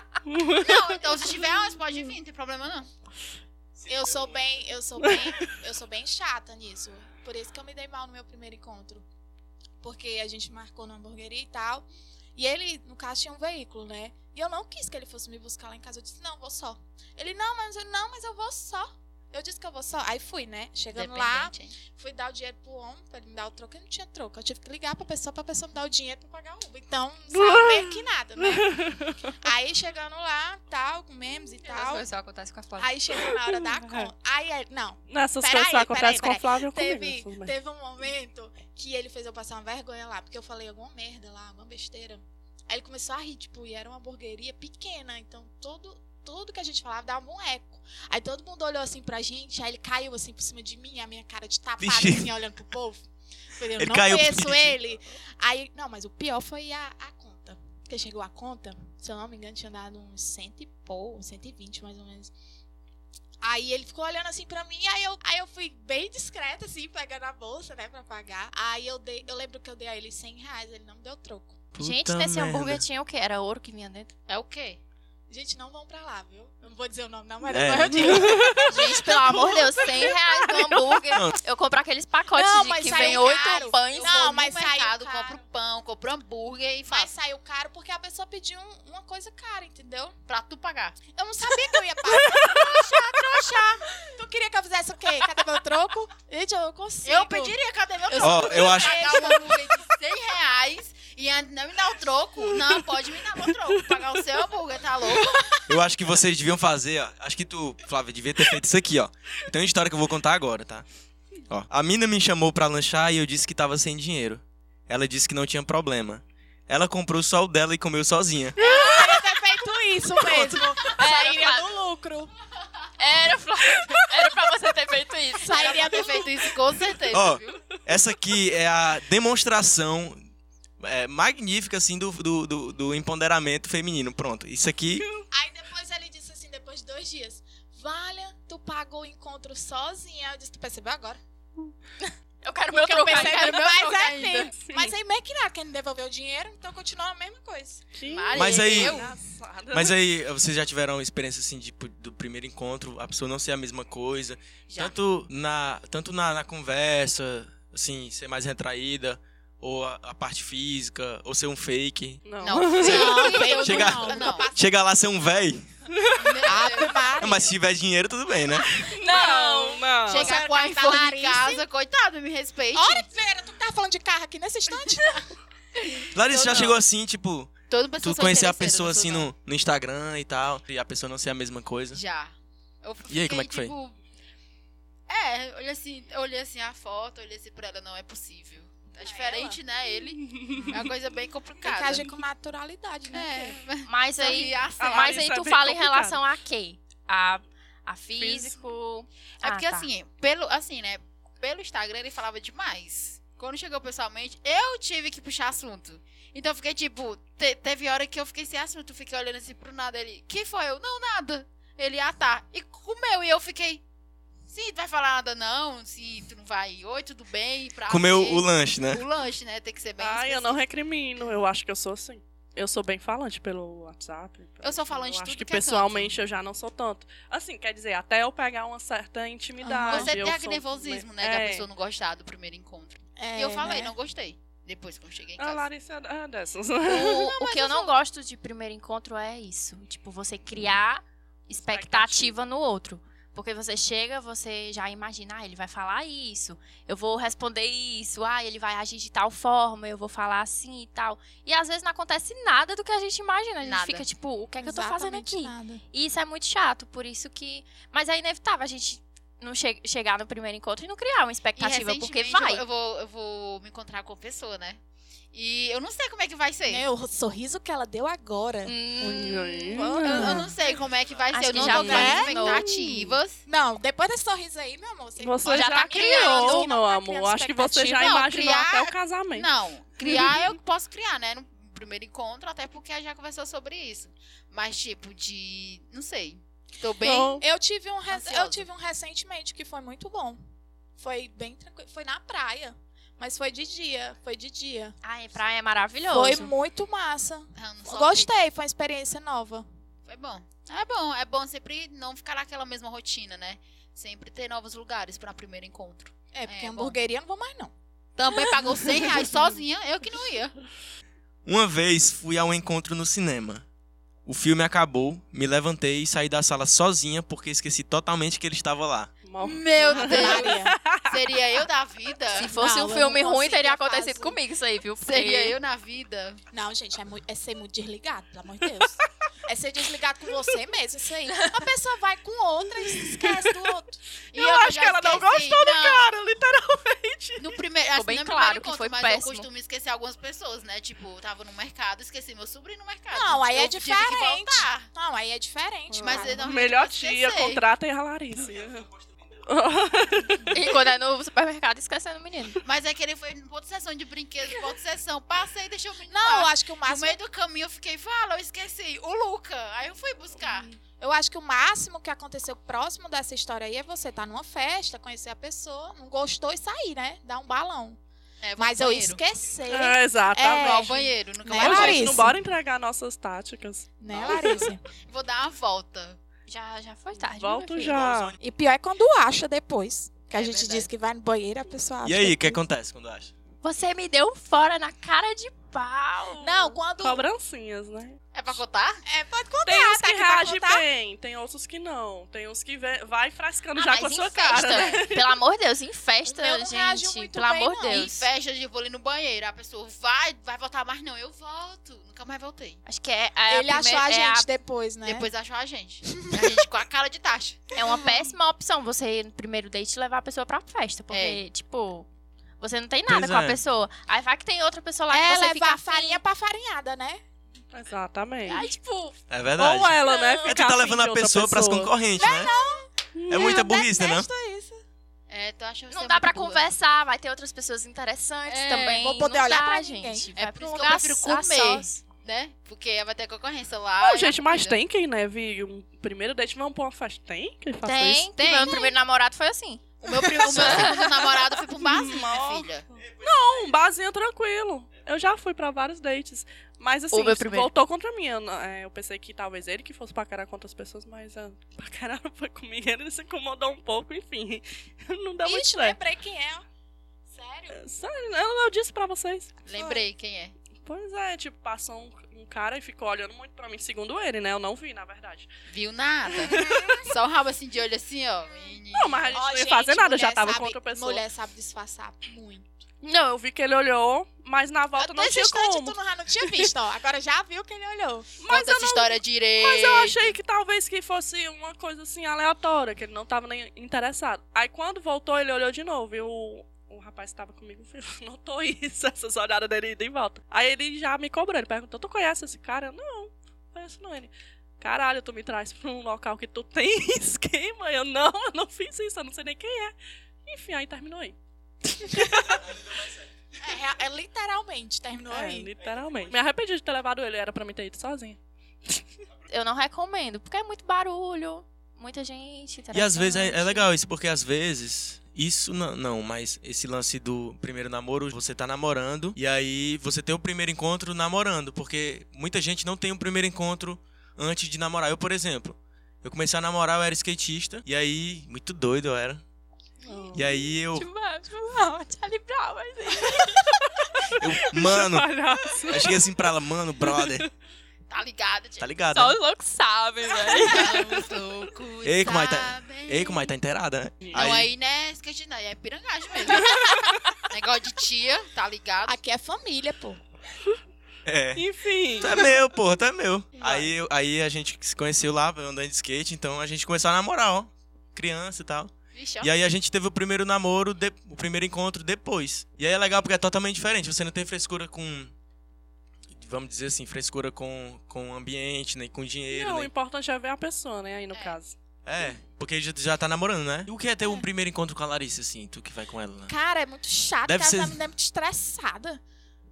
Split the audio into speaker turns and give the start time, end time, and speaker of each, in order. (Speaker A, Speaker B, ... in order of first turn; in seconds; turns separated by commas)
Speaker A: 0.2-0.9, Speaker B: 0.5-2.9, Speaker C: 3.8-4.5, Speaker D: 3.9-9.0, Speaker A: 5.0-5.3, Speaker D: 9.8-28.9, Speaker B: 20.9-21.8, Speaker A: 27.3-29.4, Speaker D: 29.4-32.1, Speaker E: 31.8-32.9, Speaker D: 32.8-62.3, Speaker A: 33.1-34.1, Speaker A: 35.1-37.5, Speaker C: 51.8-52.3, Speaker C: 53.7-54.8, Speaker D: 63.4-71.6, Speaker C: 71.7-72.8, Speaker E: 71.8-74.1, Speaker B: 74.3-74.8, Speaker D: 75.3-81.0, Speaker C: 77.5-78.5, Speaker A: 78.1-78.7, Speaker E: 78.6-84.2, Speaker C: 81.1-81.4, Speaker D: 82.3-85.4, Speaker B: 82.8-87.1, Speaker D: 86.9-90.1, Speaker B: 90.3-91.0, Speaker D: 91.1-97.5, Speaker A: 92.1-92.7, Speaker B: 92.5-93.8, Speaker B: 97.0-105.6, Speaker D: 98.1-99.9, Speaker C: 98.2-99.0, Speaker A: 102.5-102.8, Speaker A: 103.9-104.2, Speaker A: 105.2-105.7, Speaker C: 105.7-110.8, Speaker C: 111.5-118.6, Speaker B: 118.6-119.2, Speaker D: 118.6-122.3, Speaker A: 118.6-118.9, Speaker C: 120.2-120.7, Speaker E: 121.0-121.7, Speaker E: 123.0-126.0, Speaker D: 125.4-126.5, Speaker B: 125.5-127.6, Speaker C: 127.1-130.2, Speaker C: 130.8-135.1, Speaker A: 135.0-135.2, Speaker D: 135.3-141.2, Speaker E: 142.0-144.3, Speaker D: 142.7-147.8, Speaker B: 143.1-144.5, Speaker A: 144.6-144.9, Speaker A: 147.9-149.9, Speaker B: 148.0-149.1, Speaker C: 148.3-149.1, Speaker C: 149.7-165.7, Speaker B: 154.7-154.9, Speaker A: 162.2-163.6, Speaker B: 162.4-164.5, Speaker D: 162.8-164.7, Speaker A: 165.9-166.4, Speaker B: 166.2-167.2, Speaker D: 166.4-167.5, Speaker C: 167.2-168.7, Speaker A: 168.8-170.3, Speaker E: 169.0-169.9, Speaker D: 170.1-171.6, Speaker B: 170.1-173.1, Speaker D: 172.7-175.3, Speaker B: 175.9-176.8, Speaker C: 176.1-182.0, Speaker B: 177.7-179.3, Speaker B: 181.9-184.0, Speaker C: 183.1-183.7, Speaker B: 185.1-192.2, Speaker D: 189.0-189.6, Speaker A: 190.2-190.8, Speaker D: 191.6-193.6, Speaker B: 193.1-195.2, Speaker E: 193.8-199.9, Speaker A: 194.8-196.2, Speaker A: 198.2-198.5, Speaker B: 199.4-213.8, Speaker B: 214.5-220.6, Speaker C: 217.9-219.0, Speaker A: 220.0-231.7, Speaker B: 224.6-226.1, Speaker D: 229.6-230.2, Speaker B: 229.9-235.7, Speaker D: 233.2-233.9, Speaker A: 235.4-237.4, Speaker E: 236.8-262.6, Speaker A: 241.6-242.3, Speaker B: 253.6-254.1, Speaker D: 254.6-255.8, Speaker B: 261.6-264.8, Speaker B: 265.3-266.8, Speaker D: 266.7-268.8, Speaker E: 268.6-270.3, Speaker A: 269.0-270.5, Speaker D: 269.7-270.8, Speaker B: 270.0-273.4, Speaker E: 271.3-272.6, Speaker D: 271.6-272.6, Speaker A: 271.7-273.1, Speaker D: 273.4-278.9, Speaker A: 275.2-279.5, Speaker E: 275.5-276.7, Speaker B: 278.0-278.3, Speaker B: 279.3-287.4, Speaker A: 280.0-280.4, Speaker A: 287.0-287.4, Speaker D: 287.4-290.4, Speaker B: 288.1-288.6, Speaker D: 291.0-294.9, Speaker E: 295.0-296.5, Speaker D: 296.1-299.6, Speaker B: 297.6-298.3, Speaker B: 300.1-307.0, Speaker D: 306.3-307.7, Speaker B: 308.1-310.5, Speaker D: 308.3-309.2, Speaker C: 311.4-313.6, Speaker C: 314.2-319.1, Speaker A: 319.2-321.2, Speaker B: 319.4-322.5, Speaker D: 319.9-320.7, Speaker E: 322.3-325.6, Speaker D: 322.4-324.4, Speaker B: 325.0-326.4, Speaker D: 326.5-334.0, Speaker E: 331.3-331.6, Speaker A: 333.0-333.7, Speaker B: 334.3-336.1, Speaker A: 334.3-337.5, Speaker B: 337.4-344.9, Speaker E: 337.9-339.5, Speaker D: 343.1-346.4, Speaker A: 345.9-348.9, Speaker B: 346.0-347.6, Speaker A: 349.4-350.7, Speaker E: 350.5-352.6, Speaker B: 352.6-360.7, Speaker D: 356.1-357.2, Speaker A: 360.5-360.8, Speaker D: 361.0-368.0, Speaker B: 368.4-369.2, Speaker D: 368.6-372.4, Speaker A: 369.7-370.9, Speaker B: 370.6-372.3, Speaker A: 371.6-374.5, Speaker D: 374.0-374.8, Speaker B: 374.1-376.2, Speaker E: 376.5-378.0, Speaker A: 377.2-378.3, Speaker C: 377.8-378.4, Speaker D: 378.4-382.6, Speaker B: 380.3-380.9, Speaker C: 382.0-383.3, Speaker E: 383.6-386.8, Speaker D: 386.4-387.3, Speaker A: 387.0-388.2, Speaker B: 388.3-389.0, Speaker D: 389.1-390.9, Speaker A: 389.6-395.4, Speaker B: 393.8-395.0, Speaker E: 394.5-398.2, Speaker D: 396.2-398.2, Speaker B: 397.9-402.8, Speaker E: 402.9-404.5, Speaker D: 403.5-405.3, Speaker B: 405.0-407.7, Speaker D: 406.1-406.4, Speaker E: 407.7-412.1, Speaker D: 407.8-408.3, Speaker B: 411.1-411.4, Speaker E: 412.6-416.2, Speaker C: 413.1-413.6, Speaker D: 415.1-417.2, Speaker A: 417.7-418.6, Speaker E: 418.4-419.1, Speaker C: 419.3-422.5, Speaker A: 419.6-421.9, Speaker E: 420.0-420.6, Speaker D: 422.1-424.8, Speaker A: 423.1-423.6, Speaker C: 423.3-424.3, Speaker B: 425.3-426.6, Speaker E: 425.9-432.0, Speaker B: 428.5-429.0, Speaker D: 428.9-430.3, Speaker B: 430.4-434.8, Speaker A: 434.0-438.3, Speaker E: 437.8-441.2, Speaker B: 438.4-438.9, Speaker B: 440.0-442.9, Speaker A: 440.3-441.0, Speaker A: 441.8-456.0, Speaker E: 447.1-447.7, Speaker D: 455.4-456.6, Speaker D: 457.3-457.8, Speaker A: 457.7-459.6, Speaker B: 459.6-460.6, Speaker D: 459.7-460.0, Speaker A: 460.8-465.5, Speaker B: 465.7-469.4, Speaker A: 466.3-467.1, Speaker D: 466.5-467.1, Speaker D: 468.5-468.8, Speaker A: 468.9-471.2, Speaker D: 469.3-472.8, Speaker A: 473.0-476.7, Speaker D: 475.0-478.3, Speaker A: 478.4-501.4, Speaker B: 478.5-480.4, Speaker A: 501.9-502.6, Speaker D: 503.6-505.7, Speaker A: 505.3-509.0, Speaker E: 509.5-513.9, Speaker C: 512.9-529.4, Speaker A: 530.1-530.4, Speaker C: 530.3-531.1, Speaker E: 530.9-533.7, Speaker C: 534.4-537.5, Speaker A: 534.7-536.2, Speaker A: 537.1-537.4, Speaker B: 538.1-538.9, Speaker C: 538.8-539.4, Speaker E: 539.1-541.0, Speaker D: 540.6-541.1, Speaker B: 540.6-543.5, Speaker C: 542.0-544.7, Speaker A: 544.2-544.5, Speaker B: 544.3-549.2, Speaker A: 546.5-547.1, Speaker D: 546.6-547.0, Speaker D: 549.0-550.2, Speaker C: 551.2-551.6, Speaker A: 551.5-552.5, Speaker C: 552.2-565.3, Speaker B: 559.1-559.5, Speaker C: 566.4-569.9, Speaker A: 569.5-571.8, Speaker C: 572.0-576.5, Speaker D: 576.5-579.2, Speaker C: 577.4-578.0